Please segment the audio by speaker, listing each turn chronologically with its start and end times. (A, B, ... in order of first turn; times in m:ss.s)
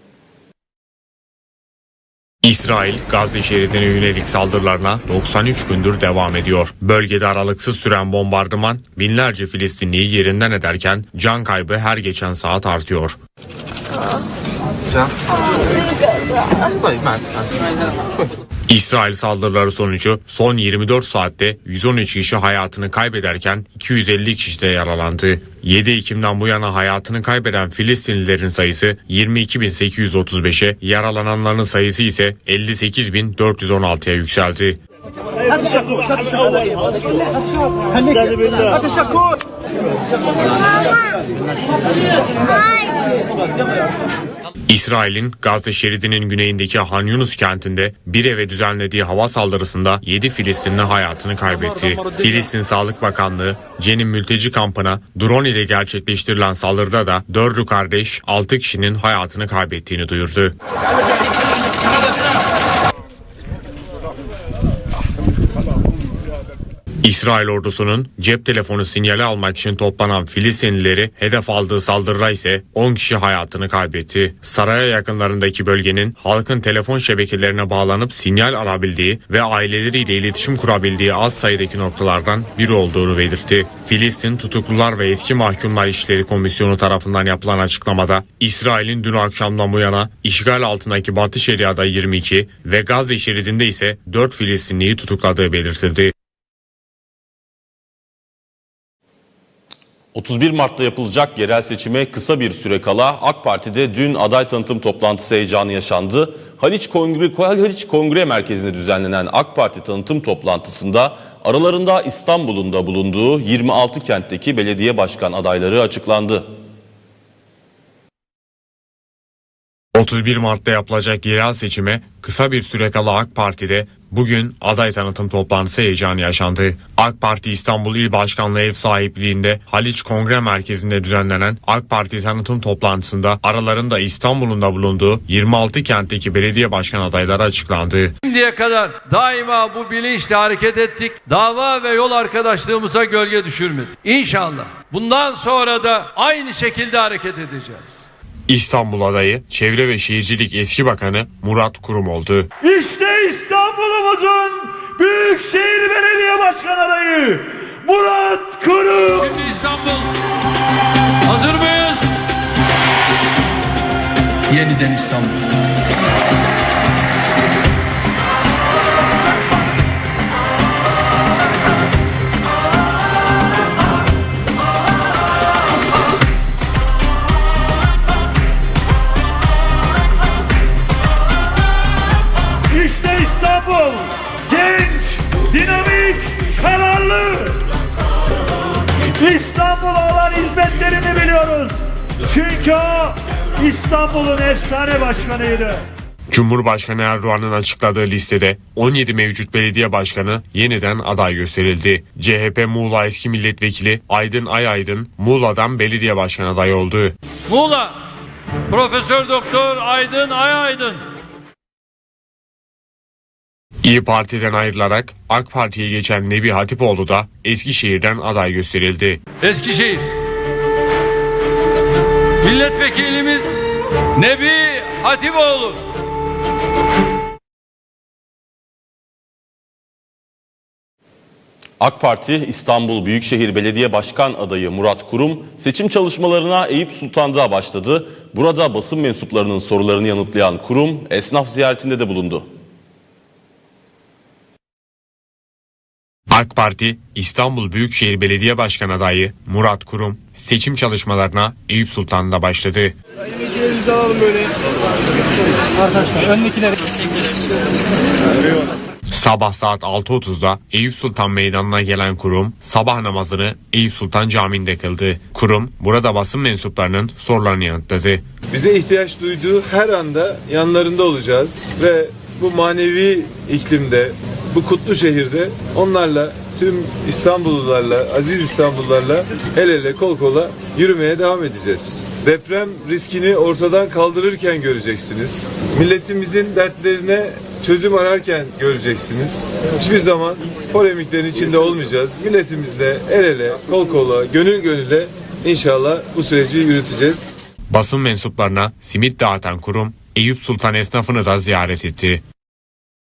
0:02.4-0:13.2 A
0:18.7-0:34.8 A
0:44.7-1:00.6 A
1:07.0-1:36.1 A
1:40.1-1:56.5 B
1:59.9-2:18.1 A
2:18.2-2:28.0 C
2:28.5-2:32.5 A
2:32.6-2:39.4 D
2:39.1-2:40.1 C
2:41.2-2:42.3 C
2:44.5-2:45.4 C
3:02.7-3:07.7 D
3:09.2-3:15.8 D
3:16.3-3:27.2 A
3:27.5-3:28.0 C
3:28.7-3:31.0 C
3:33.8-3:39.2 A
3:39.4-3:40.1 C
3:42.4-3:43.6 C
3:44.2-3:45.8 C
3:51.8-4:02.5 B
4:06.3-4:13.0 A
4:19.1-4:28.2 A
4:28.5-4:57.3 E
4:57.7-5:02.2 A